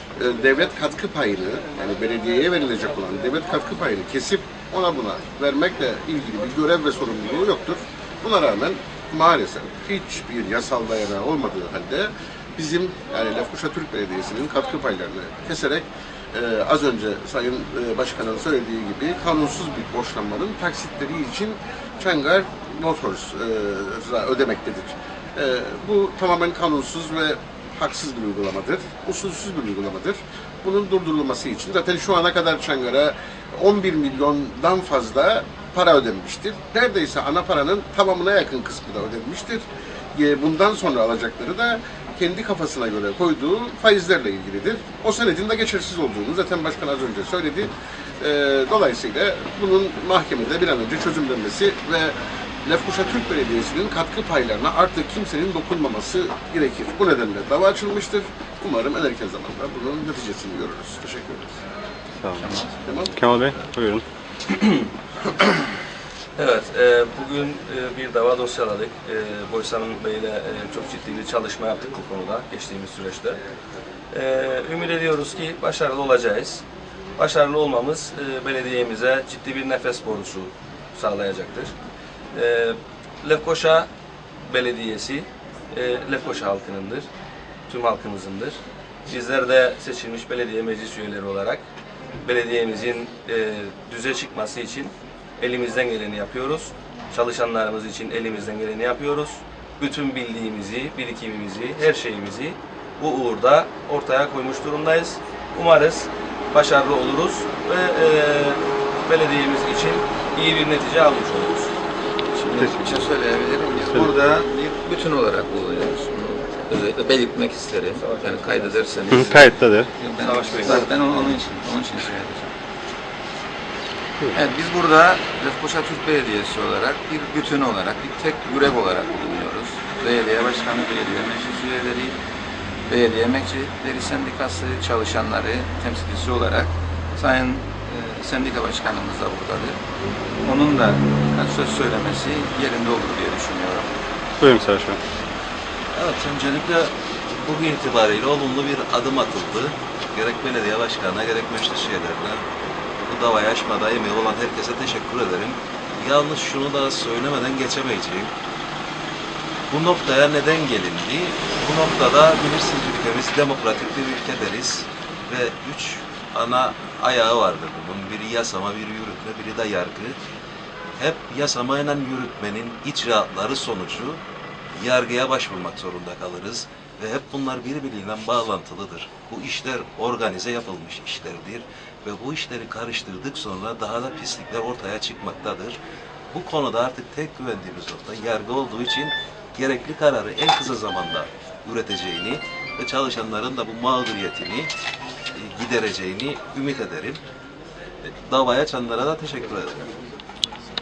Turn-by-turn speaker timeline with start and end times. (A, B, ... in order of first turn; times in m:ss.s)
0:00.2-1:01.5 A
1:02.2-1:02.5 B
1:02.4-1:02.8 C
1:02.8-1:03.1 A
1:03.1-1:04.0 B
1:04.5-1:04.8 D
1:06.4-1:13.4 D
1:14.1-1:16.6 D
1:17.2-1:21.7 D
1:22.3-1:23.9 D
1:24.4-1:27.1 D
1:27.7-1:31.6 D
1:32.2-1:51.7 D
1:52.3-2:02.5 C
1:52.5-1:53.0 B
1:58.0-1:59.1 D
1:59.1-1:59.9 B
2:00.2-2:01.4 D
2:04.3-2:12.2 C
2:12.8-2:19.8 C
2:20.4-2:24.0 C
2:24.4-2:25.0 B
2:25.9-2:32.5 E
2:33.0-2:38.3 E
2:39.7-2:50.2 E
2:51.0-2:54.2 E
2:54.8-3:14.7 E
3:15.3-3:17.2 E
3:18.0-3:19.8 E